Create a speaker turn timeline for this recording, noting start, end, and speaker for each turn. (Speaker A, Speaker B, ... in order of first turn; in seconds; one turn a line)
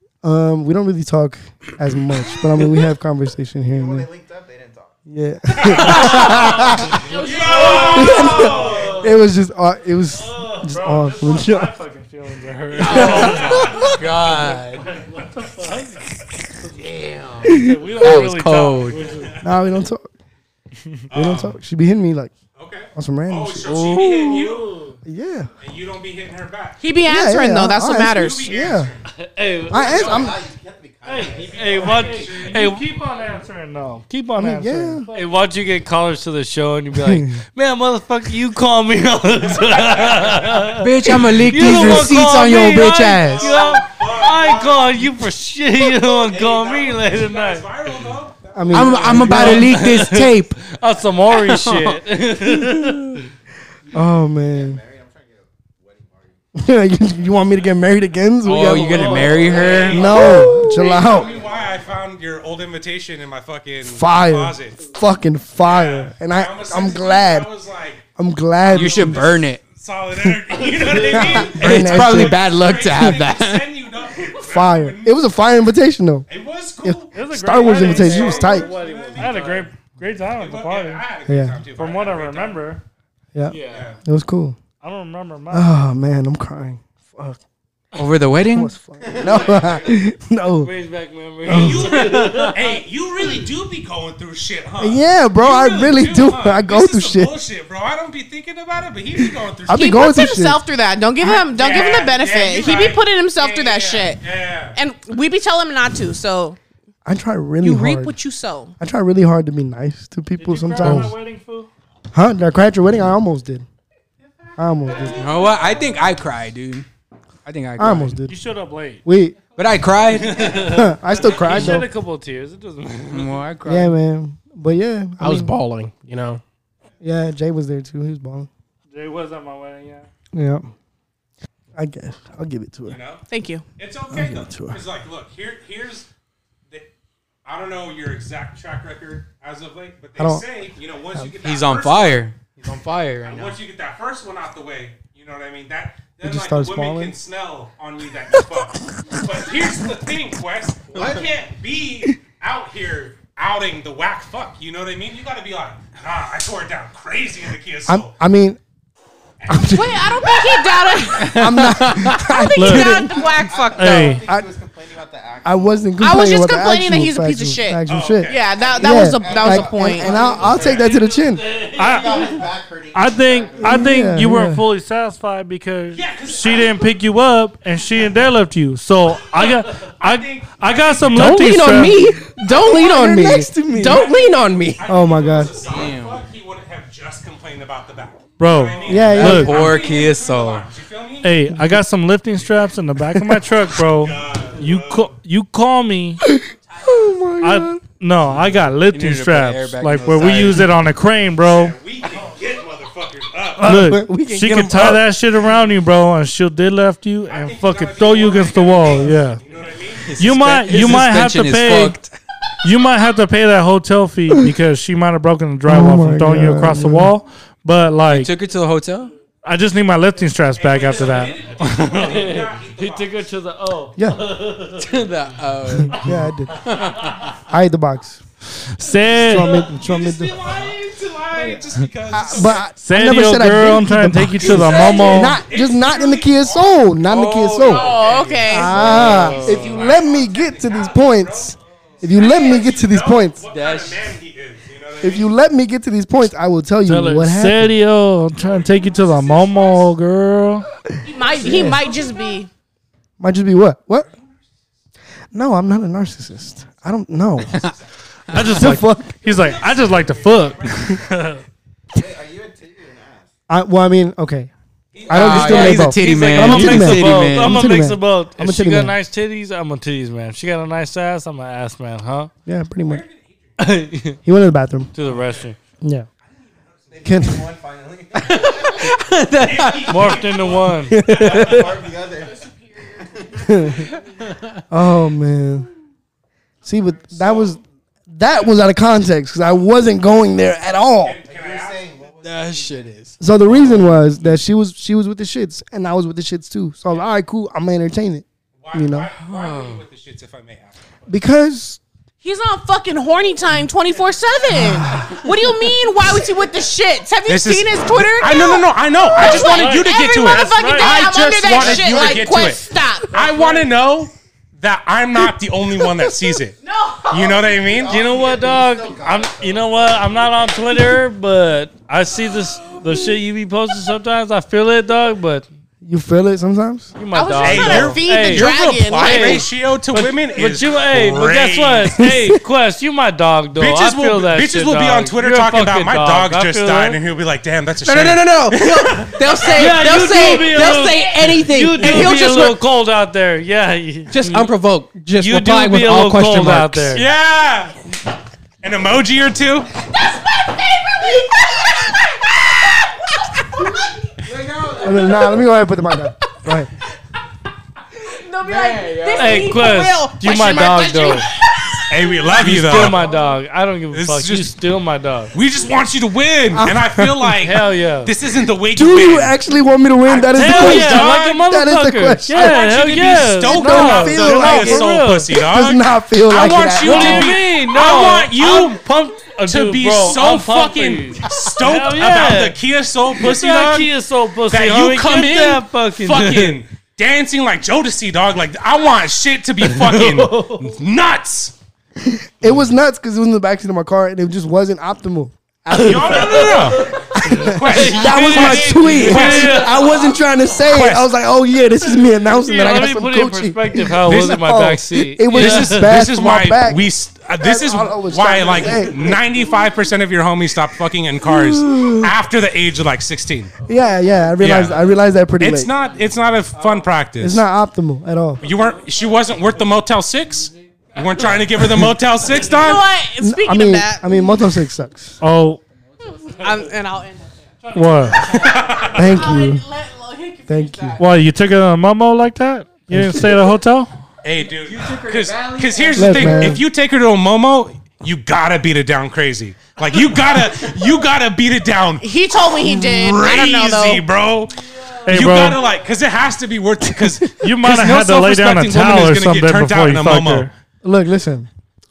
Speaker A: 0.2-4.1
Speaker B: 3.6-5.0
Speaker A: 5.1-7.0
Speaker C: 5.5-9.0
Speaker D: 7.0-8.5
Speaker E: 7.4-9.1
Speaker F: 7.5-8.8
Speaker A: 7.9-11.7
Speaker B: 8.3-8.8
Speaker E: 10.2-16.1
Speaker A: 12.8-13.9
Speaker G: 12.8-14.8
Speaker F: 12.9-13.4
Speaker C: 13.2-13.5
Speaker G: 16.8-19.0
Speaker A: 17.4-17.8
Speaker E: 17.5-19.4
Speaker A: 19.4-20.1
Speaker C: 21.1-21.5
Speaker A: 21.1-22.3
Speaker C: 22.5-24.7
Speaker A: 22.9-23.9
Speaker G: 23.6-24.3
Speaker E: 24.2-24.9
Speaker A: 25.1-25.5
Speaker C: 25.6-26.8
Speaker D: 26.8-28.7
Speaker A: 27.1-28.9
Speaker C: 28.1-29.1
Speaker F: 29.2-30.0
Speaker A: 29.7-30.4
Speaker B: 29.7-32.8
Speaker C: 29.8-30.3
Speaker E: 31.0-35.4
Speaker F: 31.1-33.3
Speaker C: 31.8-32.3
Speaker A: 34.4-35.1
Speaker F: 35.1-47.6
Speaker A: 37.0-37.4
Speaker C: 39.5-42.0
Speaker G: 40.8-43.5
Speaker E: 41.6-43.0
Speaker C: 43.0-45.1
Speaker C: 45.9-49.4
Speaker A: 48.5-49.8
Speaker G: 48.7-50.6
Speaker F: 49.2-53.2
Speaker G: 51.3-52.0
Speaker B: 53.9-56.4
Speaker A: 53.9-54.8
Speaker A: 56.5-61.3
Speaker B: 57.0-57.5
Speaker G: 58.4-60.2
Speaker F: 58.8-60.6
Speaker C: 59.4-64.8
Speaker B: 59.5-61.8
Speaker A: 63.8-67.5
Speaker C: 65.6-68.0
Speaker A: 68.2-69.4
Speaker G: 68.7-69.6
Speaker C: 68.8-75.2
Speaker A: 70.9-72.4
Speaker G: 71.5-73.7
Speaker A: 74.4-76.3
Speaker C: 76.3-77.2
Speaker A: 76.8-78.7
Speaker E: 77.1-78.6
Speaker F: 77.6-79.7
Speaker C: 77.7-79.7
Speaker E: 79.1-81.0
Speaker C: 80.3-82.7
Speaker A: 81.3-81.6
Speaker E: 81.7-82.8
Speaker A: 83.3-84.6
Speaker F: 83.5-83.9
Speaker C: 83.7-84.0
Speaker E: 84.8-85.7
Speaker A: 85.5-87.4
Speaker G: 88.0-88.7
Speaker A: 88.5-90.7
Speaker B: 89.1-89.8
Speaker F: 89.3-89.6
Speaker F: 90.6-92.7
Speaker A: 91.4-92.0
Speaker C: 91.5-100.0
Speaker A: 94.8-97.3
Speaker A: 99.7-100.6
Speaker D: 99.7-104.2
Speaker C: 101.2-104.8
Speaker D: 104.7-106.6
Speaker A: 107.0-108.1
Speaker D: 107.6-108.7
Speaker A: 108.8-111.2
Speaker E: 110.4-111.7
Speaker A: 112.1-113.7
Speaker A: 114.6-115.3
Speaker B: 115.0-116.0
Speaker G: 115.2-116.8
Speaker G: 117.5-118.2
Speaker A: 117.8-118.3
Speaker E: 118.2-119.0
Speaker A: 119.0-119.4
Speaker B: 119.5-120.2
Speaker G: 119.5-120.6
Speaker F: 120.2-123.5
Speaker A: 120.5-121.9
Speaker G: 123.1-123.9
Speaker A: 123.7-125.6
Speaker H: 125.2-126.4
Speaker A: 127.0-128.5
Speaker E: 128.9-130.1
Speaker A: 130.3-130.7
Speaker A: 131.8-133.0
Speaker C: 132.9-133.2
Speaker D: 133.3-133.7
Speaker C: 133.8-136.1
Speaker A: 134.1-134.8
Speaker C: 137.4-142.3
Speaker A: 140.2-140.4
Speaker G: 141.4-143.6
Speaker C: 143.2-158.1
Speaker A: 146.2-147.2
Speaker B: 150.9-151.3
Speaker A: 157.8-158.6
Speaker C: 159.4-160.4
Speaker A: 159.5-160.3
Speaker D: 159.7-161.5
Speaker A: 161.2-163.1
Speaker G: 161.2-162.3
Speaker D: 162.2-164.2
Speaker E: 162.5-163.0
Speaker B: 163.0-166.0
Speaker E: 163.8-164.2
Speaker A: 165.4-171.4
Speaker D: 166.0-170.3
Speaker C: 167.9-168.7
Speaker B: 168.4-171.0
Speaker F: 171.0-172.3
Speaker E: 171.7-182.1
Speaker B: 171.8-173.9
Speaker A: 173.6-174.6
Speaker C: 175.9-176.9
Speaker C: 179.2-181.4
Speaker H: 181.2-184.8
Speaker A: 182.4-184.1
Speaker D: 182.5-183.4
Speaker C: 183.8-191.4
Speaker A: 184.8-185.7
Speaker G: 185.6-186.2
Speaker E: 188.4-189.6
Speaker A: 188.8-189.7
Speaker G: 188.9-190.7
Speaker E: 191.2-196.3
Speaker A: 193.2-193.4
Speaker C: 193.8-195.1
Speaker A: 196.2-197.8
Speaker D: 196.3-197.3
Speaker E: 197.4-201.8
Speaker G: 198.9-200.7
Speaker C: 201.4-203.7
Speaker E: 203.6-209.4
Speaker A: 203.6-205.0
Speaker C: 207.3-210.1
Speaker G: 210.0-212.2
Speaker E: 210.2-212.0
Speaker E: 212.6-218.3
Speaker A: 215.7-217.1
Speaker G: 218.1-219.1
Speaker E: 219.4-221.9
Speaker C: 220.6-223.2
Speaker F: 221.6-225.0
Speaker G: 224.8-227.4
Speaker A: 225.9-226.6
Speaker A: 227.5-228.2
Speaker E: 228.8-229.6
Speaker A: 228.8-230.6
Speaker C: 229.4-232.7
Speaker A: 231.4-237.9
Speaker E: 232.8-235.4
Speaker C: 234.4-236.9
Speaker G: 237.1-238.3
Speaker B: 237.6-238.1
Speaker D: 237.6-239.1
Speaker F: 238.1-239.8
Speaker A: 238.5-243.4
Speaker C: 238.7-245.3
Speaker D: 242.2-242.6
Speaker G: 243.5-244.0
Speaker A: 245.0-247.7
Speaker E: 246.8-250.7
Speaker C: 248.3-249.9
Speaker D: 251.0-252.5
Speaker A: 251.4-251.9
Speaker A: 253.2-254.1
Speaker A: 255.3-257.7
Speaker E: 258.3-261.4
Speaker A: 258.4-259.2
Speaker C: 259.2-261.1
Speaker B: 261.9-263.3
Speaker A: 263.5-264.5
Speaker C: 264.9-265.9
Speaker A: 265.1-268.9
Speaker G: 265.1-267.6
Speaker F: 265.3-272.3
Speaker A: 272.4-273.0
Speaker C: 272.8-273.8
Speaker F: 273.6-274.2
Speaker A: 274.2-274.9
Speaker F: 274.9-275.6
Speaker C: 275.0-275.5
Speaker A: 275.8-276.1
Speaker C: 276.3-277.2
Speaker B: 276.9-278.9
Speaker A: 277.0-277.5
Speaker G: 278.4-279.9
Speaker C: 279.4-281.7
Speaker F: 279.9-281.1
Speaker A: 280.9-281.7
Speaker B: 281.0-284.0
Speaker D: 282.2-284.0
Speaker A: 283.4-283.9
Speaker G: 284.3-284.6
Speaker A: 284.7-285.7
Speaker A: 286.6-287.6
Speaker C: 287.2-287.5
Speaker A: 288.1-291.2
Speaker C: 291.0-291.9
Speaker B: 291.2-293.1
Speaker G: 292.2-294.0
Speaker A: 293.2-299.1
Speaker C: 298.6-300.8
Speaker G: 299.2-299.8
Speaker A: 301.1-301.8
Speaker D: 302.2-313.1
Speaker A: 304.5-305.1
Speaker C: 307.2-316.5
Speaker E: 309.1-311.2
Speaker B: 311.7-312.2
Speaker E: 313.2-313.6
Speaker A: 315.8-316.1
Speaker D: 316.6-317.3
Speaker C: 317.1-318.0
Speaker B: 317.1-320.7
Speaker F: 317.9-325.4
Speaker A: 325.8-326.9
Speaker F: 327.0-337.0
Speaker D: 327.1-329.5
Speaker C: 327.4-332.0
Speaker A: 332.0-332.4
Speaker C: 333.6-339.4
Speaker H: 337.8-342.6
Speaker D: 339.4-341.3
Speaker F: 339.5-344.5
Speaker H: 344.1-347.0
Speaker F: 345.2-347.1
Speaker C: 346.9-347.8
Speaker C: 348.6-349.7
Speaker D: 349.8-354.0
Speaker B: 354.2-355.4
Speaker A: 354.8-356.7
Speaker D: 358.0-362.0
Speaker B: 358.4-359.6
Speaker F: 359.1-361.2
Speaker C: 361.9-363.0
Speaker F: 362.3-365.3
Speaker B: 362.8-363.4
Speaker C: 363.9-364.5
Speaker C: 365.3-369.4
Speaker A: 366.5-367.3
Speaker F: 367.4-368.1
Speaker A: 368.7-372.6
Speaker C: 370.1-371.4
Speaker F: 370.4-375.3
Speaker E: 370.4-371.0
Speaker C: 372.3-378.8
Speaker A: 373.4-377.3
Speaker F: 376.8-382.6
Speaker C: 379.5-383.9
Speaker F: 383.2-386.6
Speaker C: 384.5-391.5
Speaker F: 389.8-390.6
Speaker A: 392.0-409.3
Speaker C: 395.7-399.9
Speaker F: 397.7-400.0
Speaker C: 400.6-401.1
Speaker F: 402.3-405.9
Speaker C: 404.1-404.4
Speaker C: 405.3-413.5
Speaker A: 411.2-412.1
Speaker B: 413.6-415.1
Speaker A: 413.6-415.7
Speaker C: 414.4-414.8
Speaker C: 415.4-417.4
Speaker B: 415.7-417.0
Speaker A: 417.2-418.4
Speaker C: 418.4-422.9
Speaker B: 418.4-421.5
Speaker B: 422.2-422.8
Speaker D: 422.5-424.5
Speaker A: 423.2-425.2
Speaker E: 425.2-425.6
Speaker B: 425.6-426.8
Speaker D: 426.0-427.6
Speaker E: 427.7-428.4
Speaker B: 428.1-428.9
Speaker C: 428.2-429.1
Speaker A: 428.9-429.6
Speaker D: 429.0-431.0
Speaker A: 430.5-431.0
Speaker E: 431.0-433.9
Speaker A: 432.9-433.3
Speaker C: 434.2-444.5
Speaker B: 434.3-436.5
Speaker A: 435.9-436.6
Speaker D: 442.0-444.0
Speaker E: 445.0-445.6
Speaker C: 445.1-450.5
Speaker E: 447.4-450.5
Speaker A: 450.8-451.5